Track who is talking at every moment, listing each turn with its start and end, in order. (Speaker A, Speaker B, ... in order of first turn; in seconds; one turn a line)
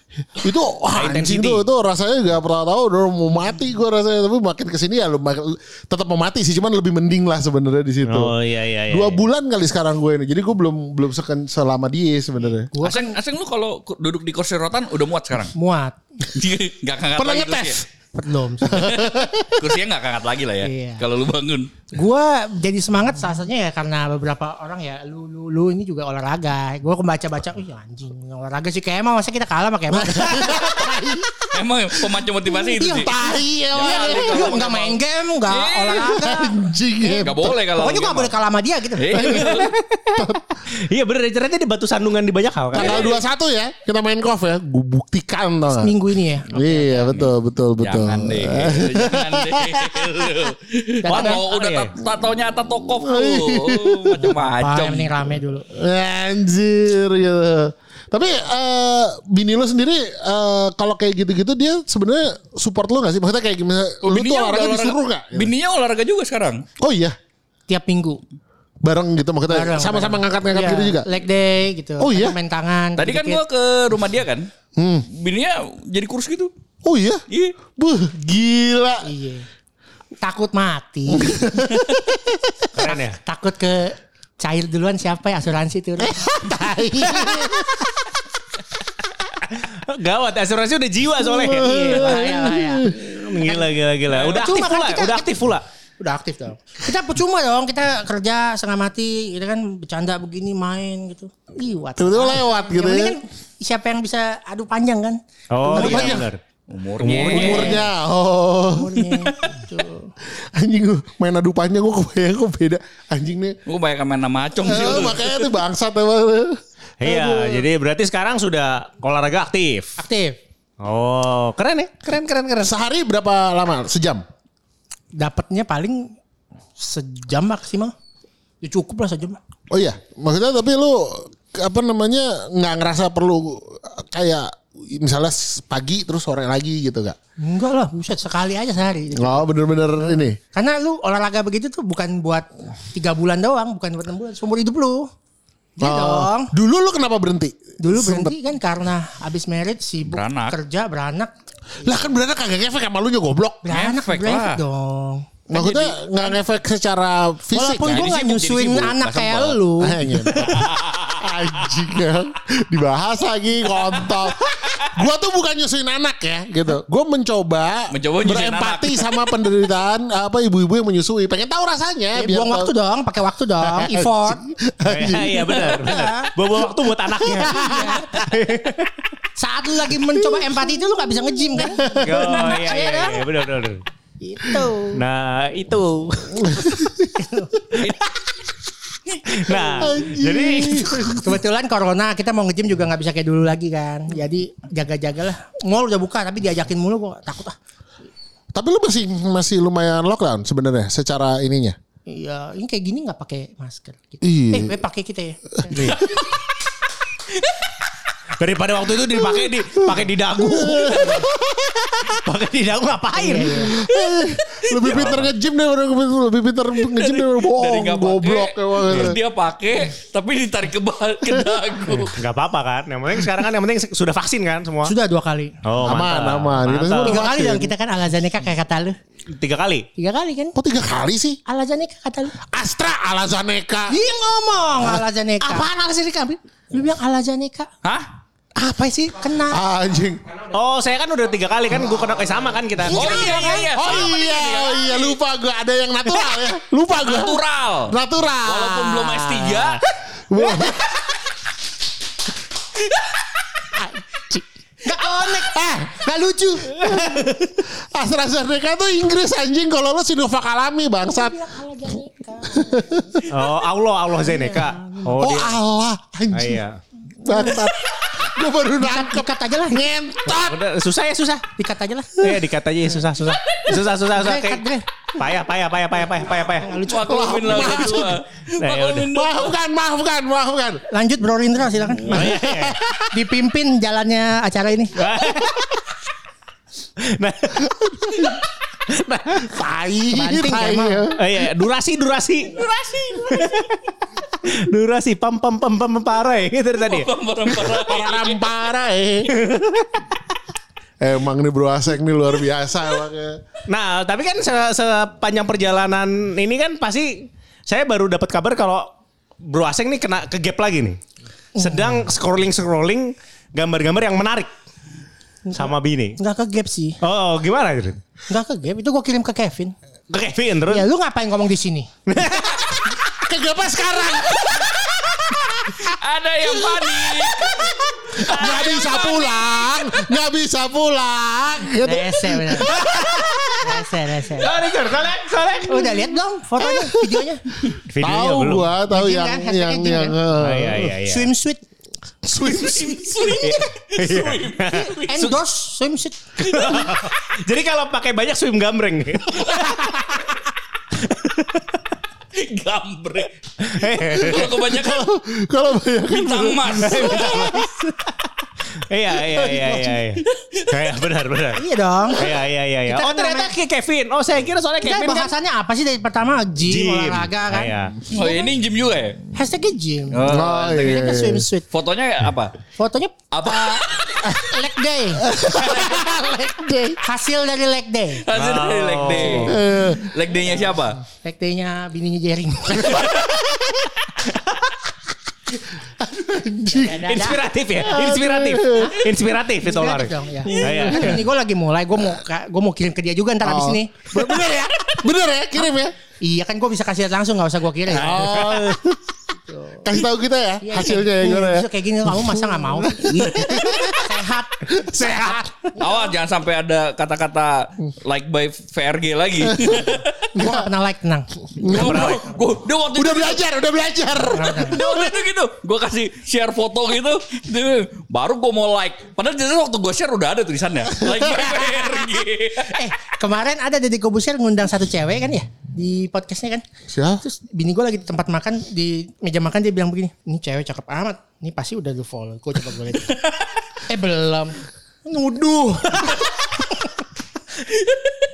Speaker A: 0.4-8.3
Speaker B: 0.9-1.6
Speaker B: 8.1-9.2
Speaker A: 8.9-12.7
Speaker C: 12.7-13.2
Speaker D: 12.8-15.6
Speaker C: 15.5-16.0
Speaker D: 16.3-17.8
Speaker A: 17.2-17.9
Speaker C: 18.1-19.0
Speaker A: 18.6-19.7
Speaker D: 18.9-21.7
Speaker C: 20.6-21.0
Speaker C: 21.9-31.1
Speaker A: 29.9-31.6
Speaker D: 31.5-33.2
Speaker C: 32.8-36.6
Speaker A: 32.8-34.5
Speaker D: 33.7-36.2
Speaker A: 36.0-37.6
Speaker D: 37.2-38.3
Speaker C: 37.8-39.7
Speaker D: 39.0-39.7
Speaker B: 39.4-43.0
Speaker A: 40.2-40.4
Speaker A: 42.7-46.0
Speaker D: 42.7-43.2
Speaker C: 45.8-47.1
Speaker A: 46.5-50.5
Speaker D: 47.8-55.1
Speaker C: 51.0-51.4
Speaker B: 51.1-51.9
Speaker A: 53.0-54.4
Speaker C: 54.6-55.7
Speaker A: 55.7-65.5
Speaker D: 64.0-66.7
Speaker A: 66.8-67.2
Speaker C: 67.7-68.2
Speaker A: 68.8-71.1
Speaker C: 69.5-73.4
Speaker A: 72.0-72.4
Speaker D: 73.0-74.5
Speaker A: 74.8-75.1
Speaker D: 75.1-76.5
Speaker A: 76.8-79.1
Speaker D: 77.3-77.6
Speaker C: 79.0-79.5
Speaker C: 80.2-81.5
Speaker A: 81.1-82.7
Speaker B: 82.8-83.2
Speaker C: 82.9-86.2
Speaker A: 86.0-88.1
Speaker B: 89.5-92.2
Speaker A: 91.2-93.1
Speaker C: 91.5-92.9
Speaker B: 92.8-95.6
Speaker C: 93.5-95.3
Speaker C: 96.0-106.3
Speaker A: 102.0-103.2
Speaker B: 105.5-106.4
Speaker A: 105.7-106.3
Speaker D: 106.7-107.8
Speaker B: 107.0-107.8
Speaker A: 107.1-109.3
Speaker C: 107.3-107.8
Speaker C: 108.7-110.1
Speaker A: 110.4-113.6
Speaker D: 113.7-115.5
Speaker A: 114.6-117.6
Speaker B: 117.0-120.0
Speaker C: 120.0-120.4
Speaker B: 120.8-122.8
Speaker A: 122.6-124.2
Speaker C: 125.2-126.2
Speaker C: 126.8-127.9
Speaker C: 128.6-129.4
Speaker A: 129.7-137.2
Speaker C: 137.4-139.5
Speaker A: 139.2-140.4
Speaker C: 140.0-145.1
Speaker C: 145.8-146.5
Speaker A: 145.8-148.3
Speaker C: 147.8-151.3
Speaker D: 150.1-150.6
Speaker A: 151.8-153.7
Speaker C: 153.6-155.9
Speaker D: 153.7-154.6
Speaker A: 155.5-158.1
Speaker C: 157.5-160.2
Speaker D: 157.8-159.6
Speaker A: 159.8-172.7
Speaker D: 160.3-161.2
Speaker D: 167.9-169.2
Speaker C: 172.2-174.5
Speaker A: 173.6-175.8
Speaker B: 174.9-179.0
Speaker C: 175.8-176.3
Speaker A: 177.3-178.0
Speaker C: 177.5-178.3
Speaker C: 179.4-183.3
Speaker A: 181.6-182.4
Speaker B: 181.9-183.8
Speaker C: 184.2-185.0
Speaker B: 184.9-186.6
Speaker A: 186.4-187.2
Speaker C: 187.2-187.8
Speaker D: 187.8-188.1
Speaker D: 189.1-189.6
Speaker B: 189.3-191.0
Speaker A: 189.8-191.4
Speaker C: 191.0-197.6
Speaker A: 198.5-201.8
Speaker C: 202.1-205.8
Speaker A: 204.2-204.8
Speaker B: 205.7-206.1
Speaker B: 208.4-211.3
Speaker A: 210.4-212.2
Speaker B: 212.1-213.7
Speaker C: 213.2-213.7
Speaker A: 213.6-219.2
Speaker D: 214.7-215.2
Speaker B: 214.9-215.3
Speaker D: 216.9-222.2
Speaker A: 221.3-222.0
Speaker B: 222.1-224.9
Speaker C: 224.8-225.5
Speaker B: 225.6-227.3
Speaker A: 225.8-227.7
Speaker C: 227.0-229.0
Speaker B: 229.3-229.9
Speaker C: 230.0-230.6
Speaker A: 230.6-231.4
Speaker C: 231.5-232.4
Speaker A: 232.5-234.0
Speaker C: 233.9-235.7
Speaker B: 235.4-236.4
Speaker C: 236.7-237.7
Speaker B: 238.6-239.2
Speaker C: 239.2-239.6
Speaker A: 239.5-240.2
Speaker B: 240.5-243.5
Speaker C: 242.9-243.7
Speaker D: 242.9-245.2
Speaker A: 243.7-251.1
Speaker D: 247.0-249.8
Speaker A: 253.8-254.4
Speaker C: 254.8-257.4
Speaker A: 255.0-256.1
Speaker A: 256.6-261.5
Speaker C: 261.1-263.2
Speaker A: 262.5-263.2
Speaker B: 263.3-265.6
Speaker C: 264.2-265.1
Speaker A: 265.1-266.6
Speaker B: 266.3-266.8
Speaker A: 267.2-270.6
Speaker C: 267.3-267.6
Speaker C: 268.8-269.9
Speaker B: 270.3-271.5
Speaker C: 271.6-272.3
Speaker B: 272.2-274.6
Speaker C: 274.1-274.9
Speaker B: 275.2-276.8
Speaker C: 276.6-277.8
Speaker D: 276.8-279.6
Speaker A: 276.9-278.2
Speaker B: 278.6-279.1
Speaker A: 279.1-280.8
Speaker C: 280.9-282.3
Speaker D: 282.0-282.3
Speaker B: 282.1-282.8
Speaker A: 282.1-283.2
Speaker C: 283.1-285.0
Speaker B: 285.0-285.7
Speaker B: 287.0-289.5
Speaker A: 287.6-288.4
Speaker A: 289.4-291.3
Speaker C: 290.1-291.1
Speaker B: 291.1-292.6
Speaker D: 292.5-293.7
Speaker B: 293.3-293.8
Speaker B: 294.4-297.1
Speaker D: 296.8-298.5
Speaker A: 297.7-299.3
Speaker B: 299.3-300.0
Speaker A: 301.0-303.4
Speaker B: 303.7-308.9
Speaker B: 309.4-311.0
Speaker C: 311.6-312.0
Speaker B: 311.6-314.5
Speaker C: 315.5-317.0
Speaker B: 315.5-316.2
Speaker B: 317.0-318.0
Speaker C: 318.3-319.7
Speaker B: 320.1-320.9
Speaker C: 320.7-321.9
Speaker B: 322.1-322.9
Speaker A: 323.1-325.9
Speaker D: 325.8-329.9
Speaker A: 326.7-333.8
Speaker C: 331.8-333.0
Speaker B: 332.7-333.3
Speaker C: 333.6-334.5
Speaker B: 334.4-336.1
Speaker C: 335.7-337.4
Speaker A: 336.6-337.3
Speaker B: 337.9-338.7
Speaker A: 338.0-340.9
Speaker C: 338.9-340.2
Speaker B: 340.4-341.3
Speaker C: 341.0-341.6
Speaker A: 342.3-343.0
Speaker D: 342.3-345.4
Speaker B: 343.3-345.3
Speaker C: 345.1-346.9
Speaker B: 346.4-350.2
Speaker B: 350.9-351.6
Speaker D: 352.3-353.3
Speaker B: 353.6-354.5
Speaker D: 354.1-355.1
Speaker A: 354.2-357.7
Speaker D: 356.1-357.5
Speaker B: 356.8-357.9
Speaker B: 358.9-365.3
Speaker A: 359.4-360.0
Speaker D: 360.3-360.8
Speaker C: 361.6-362.3
Speaker C: 362.9-363.5
Speaker C: 364.8-368.5
Speaker B: 366.7-368.0
Speaker D: 368.1-369.2
Speaker C: 369.3-371.7
Speaker D: 370.1-371.1
Speaker A: 370.3-371.4
Speaker D: 371.7-372.5
Speaker C: 372.8-375.3
Speaker D: 373.3-374.3
Speaker A: 375.2-377.0
Speaker D: 375.6-375.9
Speaker C: 377.0-378.2
Speaker D: 378.2-381.0
Speaker B: 378.3-379.6
Speaker A: 379.4-380.1
Speaker C: 381.2-383.1
Speaker D: 382.9-383.3
Speaker A: 382.9-383.9
Speaker B: 384.3-384.5
Speaker A: 386.0-389.0
Speaker C: 386.7-387.5
Speaker B: 386.9-391.2
Speaker C: 388.8-389.0
Speaker C: 389.6-394.4
Speaker A: 390.6-391.2
Speaker A: 393.4-395.9
Speaker C: 396.2-398.6
Speaker A: 397.9-399.0
Speaker B: 398.2-398.8
Speaker C: 399.5-399.9
Speaker A: 399.8-405.5
Speaker C: 400.6-403.1
Speaker D: 403.1-404.0
Speaker C: 403.9-406.0
Speaker D: 405.8-410.3
Speaker A: 409.5-410.7
Speaker C: 410.4-412.2
Speaker A: 411.6-412.2
Speaker D: 411.7-413.4
Speaker B: 411.7-412.2
Speaker A: 412.9-415.1
Speaker C: 414.3-414.8
Speaker D: 414.7-422.8
Speaker A: 421.0-422.1
Speaker C: 422.7-426.6
Speaker A: 426.9-427.2
Speaker C: 427.2-433.1
Speaker C: 433.9-436.3
Speaker D: 437.8-438.1